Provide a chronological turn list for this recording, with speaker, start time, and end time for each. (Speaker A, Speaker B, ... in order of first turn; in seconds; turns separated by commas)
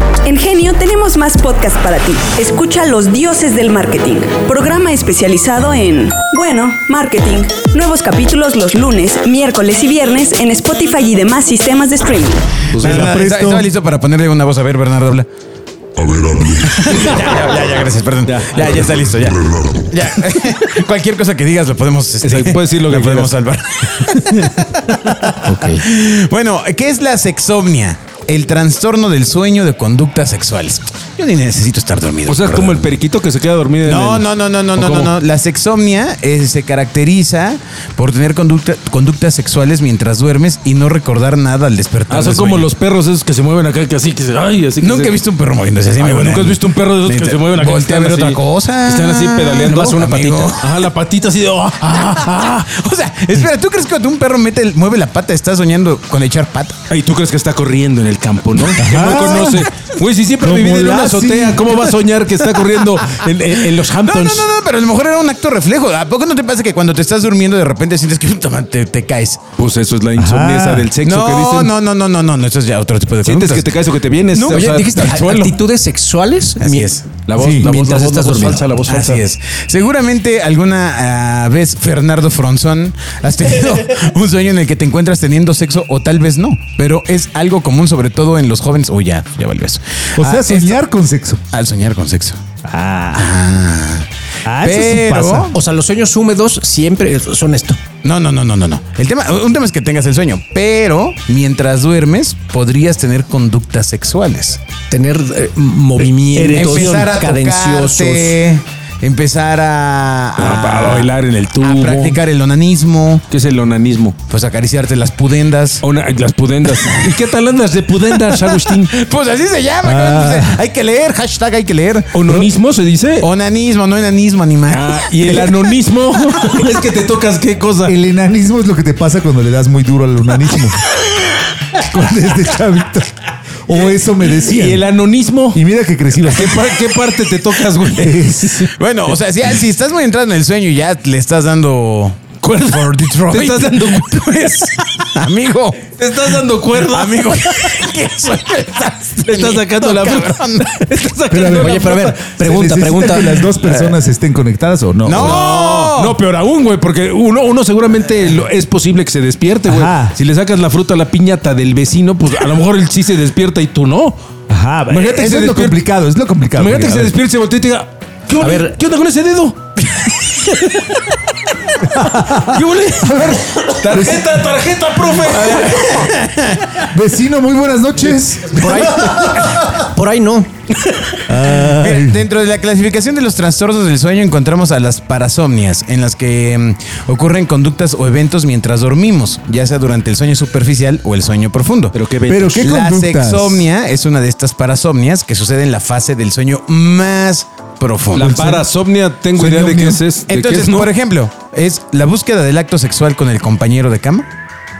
Speaker A: 0.2-12.6, Speaker B: 12.7-13.2, Speaker C: 12.8-13.7, Speaker D: 12.8-15.3, Speaker E: 16.0-17.3, Speaker D: 16.8-32.9, Speaker B: 18.2-19.1, Speaker E: 18.8-19.9, Speaker B: 22.2-23.3, Speaker B: 24.2-24.5, Speaker F: 25.4-25.8, Speaker B: 32.2-35.1, Speaker D: 33.8-42.7, Speaker B: 42.1-45.2, Speaker D: 44.8-50.7, Speaker B: 46.0-52.7, Speaker F: 49.6-50.5, Speaker D: 51.9-56.8, Speaker B: 56.9-64.5, Speaker C: 58.8-59.7, Speaker C: 60.4-61.8, Speaker D: 63.1-69.4, Speaker B: 69.5-71.7, Speaker C: 70.2-70.9, Speaker D: 71.0-73.8, Speaker B: 73.2-75.5, Speaker D: 74.3-75.2, Speaker F: 74.5-76.9, Speaker D: 76.6-77.1, Speaker B: 77.2-79.2, Speaker C: 77.4-77.7, Speaker F: 77.5-78.8, Speaker D: 78.9-90.8, Speaker C: 90.2-91.4, Speaker D: 91.5-92.4, Speaker C: 92.6-93.3, Speaker D: 93.1-94.1, Speaker C: 94.4-95.5, Speaker D: 94.6-95.5, Speaker F: 95.5-97.8, Speaker D: 98.0-104.6, Speaker F: 104.9-108.4, Speaker C: 106.3-107.0, Speaker B: 106.4-106.8, Speaker D: 106.5-113.2, Speaker B: 110.4-112.2, Speaker B: 113.3-114.2, Speaker D: 114.3-115.8, Speaker B: 115.8-118.9, Speaker D: 118.2-122.5, Speaker C: 119.8-120.6, Speaker B: 122.1-123.3, Speaker D: 123.2-125.7, Speaker B: 124.7-127.9, Speaker D: 126.3-126.7, Speaker C: 127.8-130.8, Speaker C: 131.7-134.9, Speaker B: 133.7-135.6, Speaker C: 135.5-136.8, Speaker B: 136.2-138.7, Speaker C: 137.9-138.7, Speaker D: 138.7-150.8, Speaker B: 142.6-144.7, Speaker B: 146.0-147.5, Speaker B: 149.2-152.3, Speaker C: 151.3-155.4, Speaker F: 151.6-153.7, Speaker D: 155.0-156.2, Speaker B: 155.1-164.2, Speaker C: 159.7-160.1, Speaker C: 164.5-167.2, Speaker B: 164.9-165.8, Speaker B: 166.5-169.8, Speaker F: 168.4-168.7, Speaker B: 170.5-171.0, Speaker C: 171.9-174.4, Speaker B: 172.3-176.1, Speaker D: 175.4-176.9, Speaker C: 176.9-179.7, Speaker F: 178.5-180.5, Speaker C: 181.2-182.2, Speaker D: 181.6-191.9, Speaker B: 191.9-192.7, Speaker C: 192.3-193.7, Speaker D: 192.5-198.4, Speaker B: 198.1-200.9, Speaker C: 198.1-198.7, Speaker C: 199.3-200.0, Speaker D: 200.3-204.3